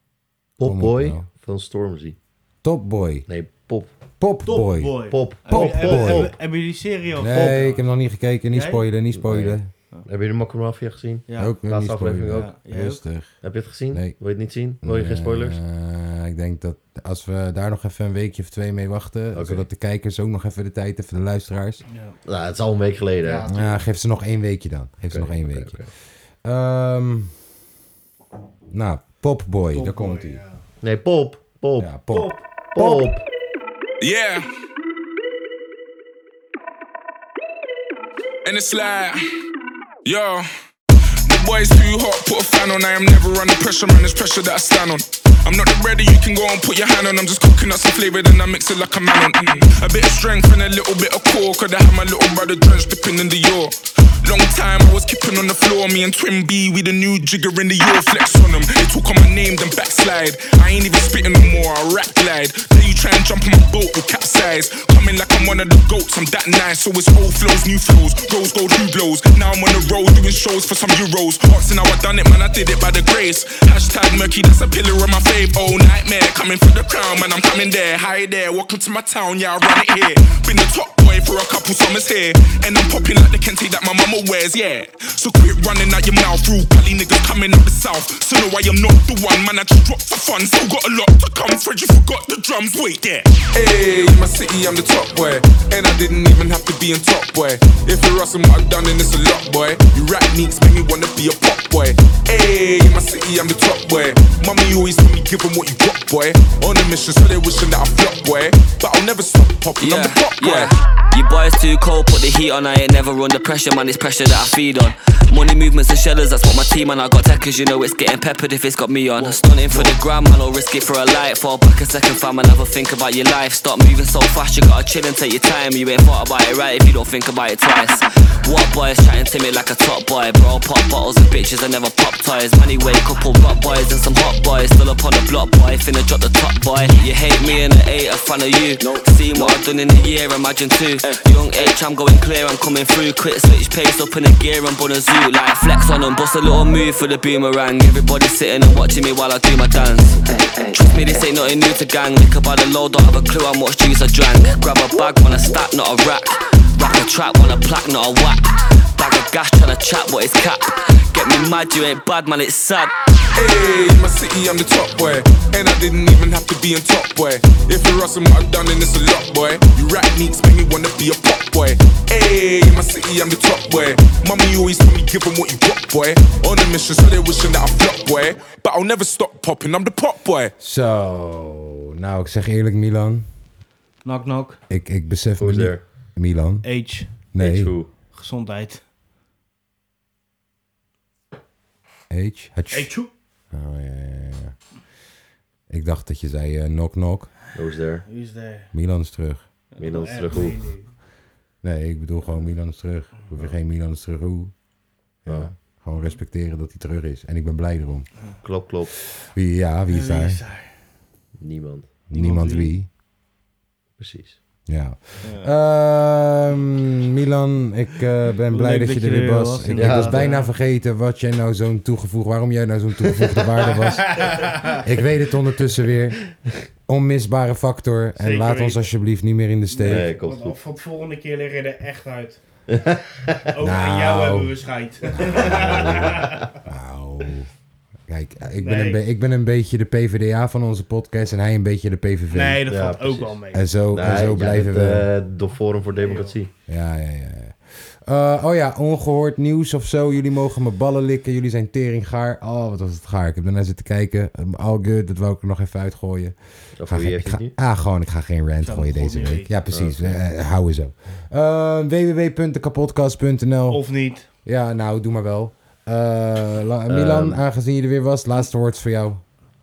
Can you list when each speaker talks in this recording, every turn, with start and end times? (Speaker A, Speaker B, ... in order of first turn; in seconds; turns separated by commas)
Speaker A: 0.6-2.2, Speaker B: 0.6-1.3, Speaker B: 2.6-3.3, Speaker A: 3.3-3.9, Speaker B: 4.2-6.3, Speaker C: 4.5-7.9, Speaker A: 5.1-6.3, Speaker B: 7.2-9.7, Speaker C: 8.5-8.8, Speaker A: 9.1-12.5, Speaker C: 11.3-11.6, Speaker B: 11.4-14.2, Speaker C: 12.3-13.0, Speaker A: 13.4-15.6, Speaker B: 14.8-21.8, Speaker A: 19.3-19.6, Speaker C: 21.9-22.2, Speaker A: 22.2-23.5, Speaker C: 23.2-23.8, Speaker B: 23.5-25.9, Speaker A: 25.1-25.9, Speaker B: 26.4-27.4, Speaker B: 28.7-30.4, Speaker C: 29.7-30.6, Speaker A: 30.8-31.9, Speaker B: 31.8-32.3, Speaker C: 32.1-33.1, Speaker A: 32.8-33.2, Speaker D: 34.0-34.5, Speaker D: 38.4-39.2, Speaker D: 40.0-40.5, Speaker D: 41.3-110.7, Speaker E: 109.8-158.4, Speaker E: 159.0-162.9, Speaker D: 163.3-180.5, Speaker B: 180.6-183.3, Speaker C: 184.0-184.6, Speaker B: 184.7-187.8, Speaker A: 185.4-185.8, Speaker C: 186.6-187.1, Speaker A: 187.4-187.9, Speaker C: 188.1-188.8, Speaker B: 192.1-193.0, Speaker C: 192.7-193.1, Speaker B: 193.5-194.6, Speaker B: 195.7-197.4, Speaker A: 197.6-198.1, Speaker C: 198.1-198.7, Speaker B: 198.7-199.5, Speaker C: 199.7-200.9, Speaker A: 199.8-200.6, Speaker B: 201.6-204.5, Speaker C: 203.2-203.5, Speaker A: 205.2-205.5, Speaker B: 205.2-208.1, Speaker A: 208.4-208.9, Speaker B: 209.1-210.4, Speaker C: 209.9-210.9, Speaker A: 211.4-211.9, Speaker B: 212.1-212.9, Speaker C: 212.1-212.7, Speaker A: 214.0-214.4, Speaker B: 214.7-230.1, Speaker C: 215.2-215.5, Speaker C: 218.5-220.5, Speaker A: 219.7-220.3, Speaker C: 223.7-224.8, Speaker C: 228.2-228.9, Speaker C: 229.7-232.4, Speaker A: 229.9-230.6, Speaker A: 232.7-233.4, Speaker C: 233.5-236.6, Speaker B: 233.6-234.6, Speaker B: 235.2-237.5, Speaker A: 235.4-236.0, Speaker B: 238.1-242.7, Speaker C: 238.6-239.0, Speaker C: 242.3-243.6, Speaker A: 242.7-246.5, Speaker B: 243.5-245.1, Speaker C: 245.9-246.3, Speaker B: 246.7-269.2, Speaker A: 256.8-257.5, Speaker C: 258.6-259.6, Speaker A: 259.7-260.2, Speaker C: 263.7-264.3, Speaker A: 266.9-267.4